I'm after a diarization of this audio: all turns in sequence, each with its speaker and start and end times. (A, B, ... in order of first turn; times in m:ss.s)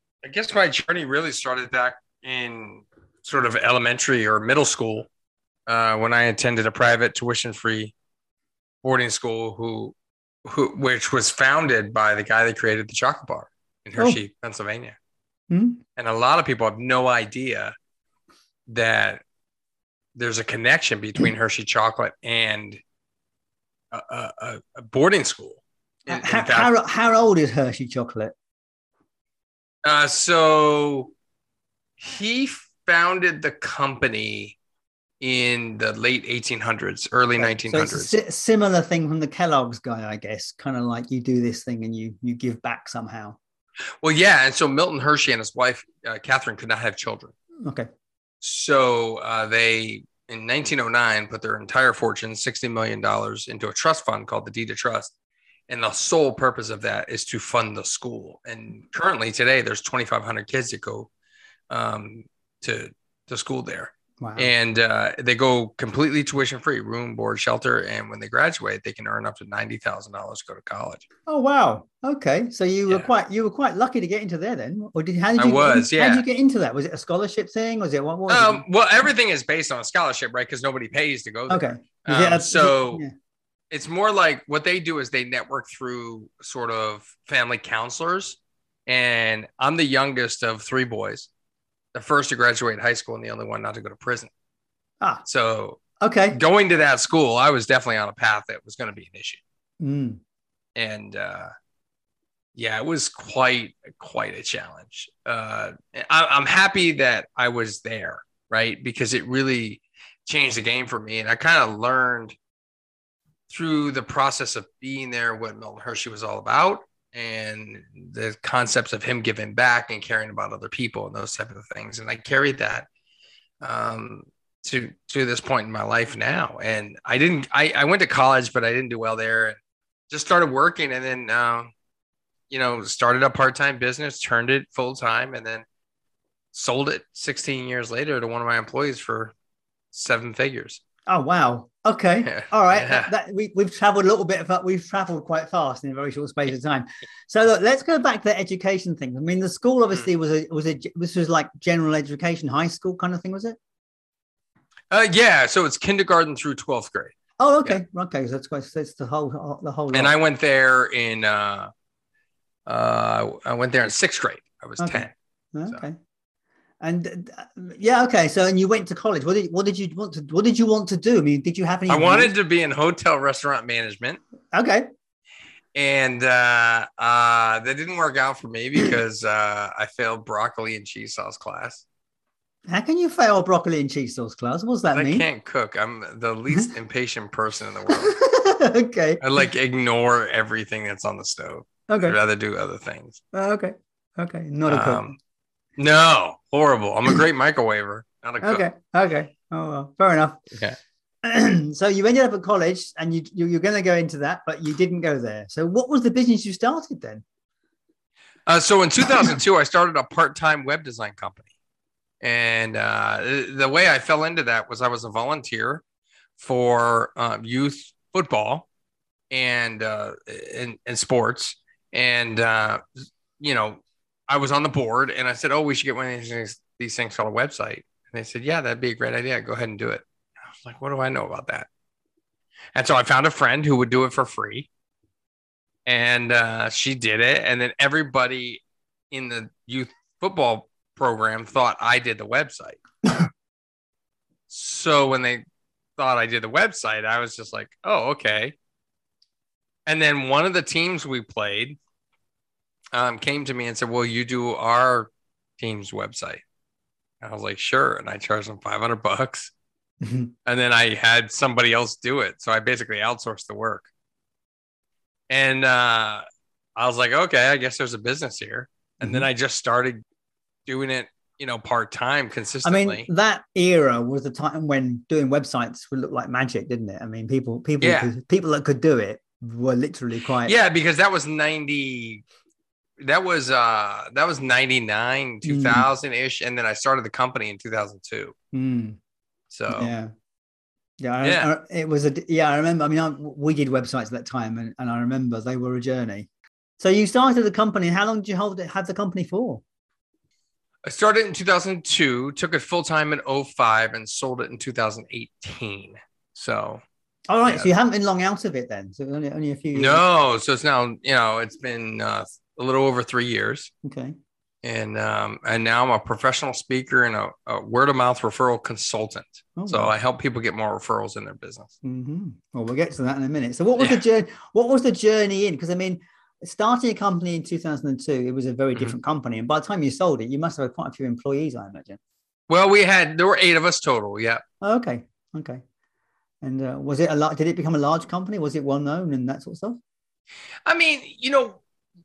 0:00.2-0:05.1 A
0:05.7-0:07.9 A
0:08.8-0:15.0 A
0:15.5-0:15.8 B
0:16.0-0:17.7 A
0:18.7-0:19.2 A
0:20.2-0:22.8 A
0:23.9-0:26.7 A
0:26.1-0:28.3 B
0:29.8-0:31.1 A
0:32.0-0:34.6 A
0:35.2-0:38.1 A
0:37.4-0:43.4 B
0:44.0-0:47.3 A
0:47.6-0:47.9 B
0:48.4-0:55.1 A
0:55.7-1:01.1 A
1:01.7-1:11.0 A
1:04.2-1:04.5 B
1:11.3-1:18.6 B
1:15.4-1:16.2 A
1:18.3-1:23.0 A
1:21.5-1:23.1 B
1:23.7-1:31.3 A
1:31.9-1:34.3 A
1:35.2-1:35.8 A
1:36.0-1:36.4 B
1:36.3-1:39.4 A
1:39.8-1:40.2 B
1:40.8-1:41.5 A
1:42.5-1:52.3 A
1:53.5-2:02.9 A
2:03.6-2:09.6 A
2:10.1-2:11.7 A
2:12.5-2:15.6 A
2:16.5-2:19.3 A
2:19.9-2:20.8 A
2:21.1-2:33.6 B
2:22.2-2:23.1 A
2:34.9-2:37.1 A
2:37.4-2:40.1 B
2:39.9-2:41.7 A
2:42.6-2:45.1 A
2:44.8-2:46.0 B
2:46.8-2:52.3 B
2:51.9-2:54.2 A
2:54.5-2:54.9 B
2:55.7-3:01.8 A
3:02.7-3:05.2 B
3:04.9-3:08.2 A
3:07.9-3:09.4 B
3:09.2-3:13.2 A
3:11.9-3:12.2 B
3:13.3-3:15.2 B
3:14.7-3:15.1 A
3:15.8-3:18.6 A
3:18.4-3:20.4 B
3:21.2-3:27.2 B
3:28.4-3:31.5 A
3:32.2-3:35.8 A
3:36.4-3:38.7 A
3:39.3-3:51.7 A
3:52.7-3:54.7 A
3:55.8-4:02.8 A
4:04.5-4:05.4 A
4:06.0-4:08.5 A
4:09.9-4:11.8 A
4:12.9-4:16.4 A
4:17.2-4:19.5 A
4:20.0-4:20.3 B
4:20.4-4:23.9 A
4:25.3-4:26.2 A
4:26.8-4:30.0 A
4:30.7-4:33.1 A
4:32.6-4:40.5 B
4:37.8-4:38.1 A
4:40.4-4:42.2 A
4:43.0-4:48.3 A
4:45.4-4:45.9 B
4:48.5-4:49.0 B
4:49.5-4:49.9 A
4:49.7-4:50.1 B
4:51.0-4:59.6 B
4:51.2-4:51.5 A
5:00.8-5:06.8 A
5:07.3-5:10.0 B
5:09.7-5:13.7 A
5:13.8-5:14.1 B
5:14.6-5:21.7 A
5:19.6-5:19.9 B
5:21.8-5:32.0 B
5:32.5-5:34.4 A
5:34.6-5:35.6 B
5:36.4-5:39.8 B
5:40.6-5:41.6 A